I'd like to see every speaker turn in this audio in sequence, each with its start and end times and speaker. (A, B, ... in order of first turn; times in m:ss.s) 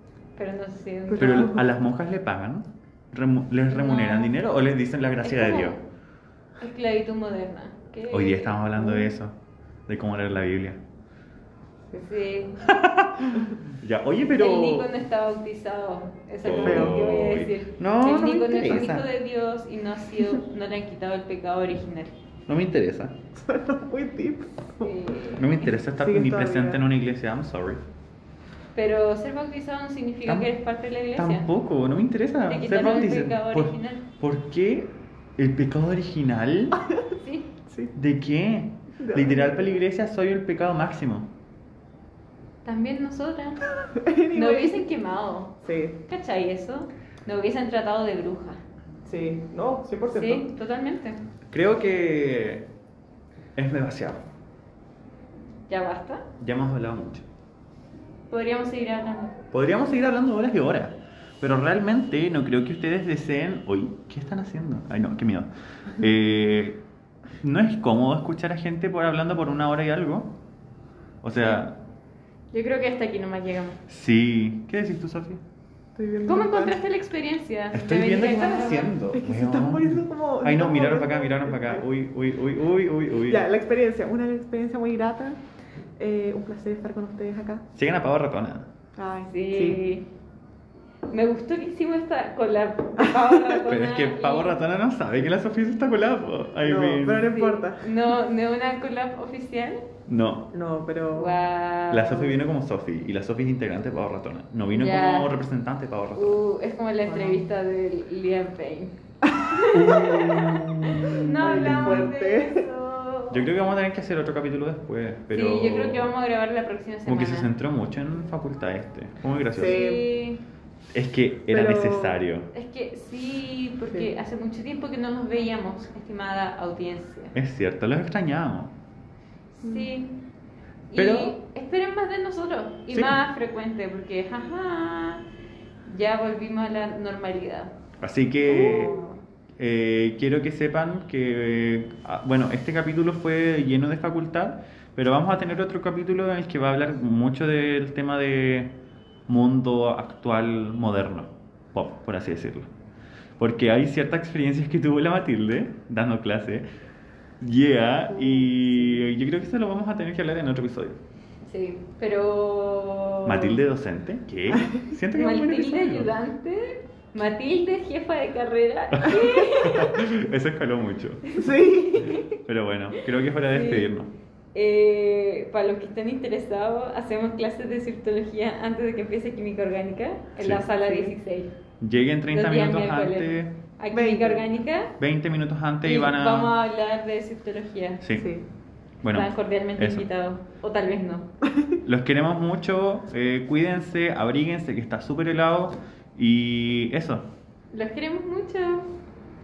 0:00.4-0:01.5 A
0:01.1-0:01.6 B
0:01.2-0:05.8 C
0:03.7-0:04.4 A
0:05.2-0:05.8 A
0:06.6-0:08.9 A
0:08.1-0:09.3 C
0:09.9-0:10.8 C
0:12.0-0:12.6 A
0:12.6-0:14.9 C
0:14.4-0:22.1 A
0:16.4-0:19.1 C
0:16.6-0:17.1 B
0:22.5-0:23.2 C
0:23.3-0:25.0 B
0:24.8-0:25.7 A
0:25.4-0:27.8 C
0:26.0-0:26.8 B
0:28.7-0:31.5 A
0:31.2-0:36.8 C
0:32.5-0:34.0 A
0:37.2-0:37.5 A
0:37.7-0:37.9 B
0:37.9-0:41.3 C
0:39.0-0:39.8 B
0:42.6-0:43.7 A
0:43.9-0:44.9 B
0:44.3-0:48.6 A
0:45.6-0:46.0 B
0:49.0-0:50.5 B
0:50.1-0:51.2 A
0:51.5-0:52.7 C
0:53.6-0:54.2 C
0:55.7-0:56.3 A
0:56.4-0:57.2 C
0:58.3-0:59.4 A
0:59.5-1:06.8 C
1:07.4-1:10.3 C
1:11.2-1:11.8 C
1:12.5-1:13.8 A
1:13.9-1:15.4 C
1:15.9-1:16.8 B
1:16.2-1:18.9 A
1:17.7-1:23.4 C
1:19.1-1:21.8 B
1:23.3-1:25.4 B
1:26.0-1:27.6 B
1:27.7-1:28.7 C
1:29.0-1:29.8 B
1:29.3-1:30.1 A
1:31.1-1:34.6 A
1:33.6-1:37.3 C
1:36.6-1:37.9 B
1:37.3-1:39.8 A
1:40.1-1:40.5 C
1:40.5-1:41.4 B
1:41.1-1:42.4 A
1:41.9-1:46.4 C
1:44.8-1:45.4 A
1:46.2-1:49.0 A
1:47.0-1:47.4 B
1:49.2-1:52.7 B
1:49.5-1:53.5 A
1:49.9-1:51.7 C
1:53.3-1:56.1 C
1:55.3-1:57.5 A
1:57.1-1:59.8 C
1:59.5-2:00.0 B
1:59.6-2:00.4 A
2:00.9-2:02.5 C
2:01.5-2:02.2 B
2:02.5-2:07.3 A
2:07.3-2:08.7 C
2:09.5-2:10.2 A
2:09.6-2:09.9 B
2:10.9-2:15.2 A
2:10.9-2:11.3 C
2:12.9-2:13.2 C
2:15.9-2:17.8 A
2:18.0-2:19.0 C
2:18.4-2:19.2 B
2:19.6-2:28.7 C
2:29.3-2:32.7 C
2:33.4-2:36.6 C
2:37.4-2:41.0 C
2:38.2-2:39.0 B
2:41.4-2:43.6 A
2:43.2-2:46.1 C
2:45.1-2:50.0 A
2:48.9-2:51.2 C
2:51.3-2:52.2 A
2:51.4-2:52.2 B
2:52.3-2:54.1 C
2:52.9-2:53.9 A
2:54.6-3:01.5 A
3:00.8-3:01.1 B
3:01.8-3:03.6 C
3:02.3-3:05.0 A
3:03.9-3:04.4 B
3:05.0-3:06.5 C
3:05.8-3:08.0 A
3:08.1-3:08.4 B
3:09.0-3:10.0 C
3:09.1-3:11.3 A
3:11.8-3:17.2 C
3:17.7-3:18.9 A